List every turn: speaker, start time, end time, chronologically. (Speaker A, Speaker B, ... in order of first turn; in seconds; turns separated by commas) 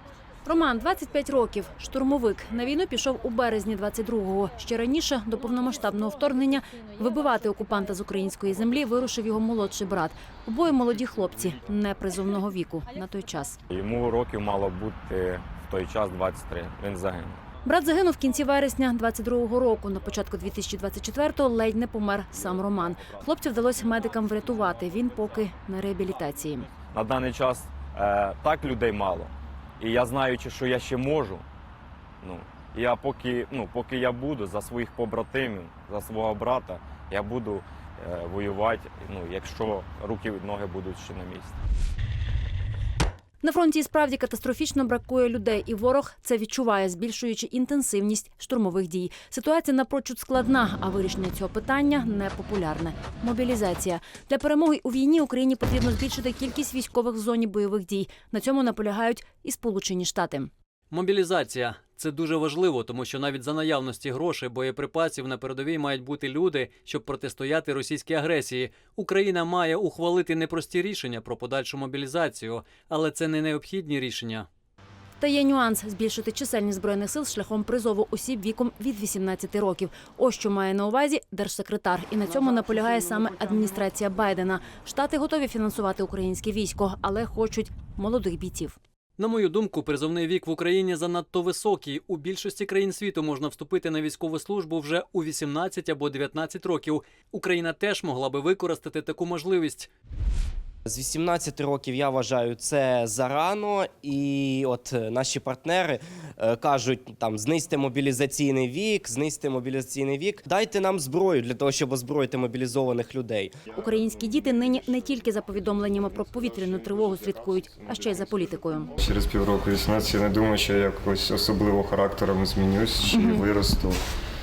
Speaker A: 0.5-13.6, Speaker B: 13.7-17.4, Speaker A: 17.6-26.7, Speaker B: 22.4-23.2, Speaker B: 26.9-31.4, Speaker B: 32.2-41.5, Speaker A: 43.4-60.5, Speaker C: 60.9-74.5, Speaker A: 75.2-88.8, Speaker C: 89.2-99.9, Speaker D: 100.9-113.5, Speaker A: 113.8-118.9, Speaker E: 114.0-118.4, Speaker E: 119.0-124.0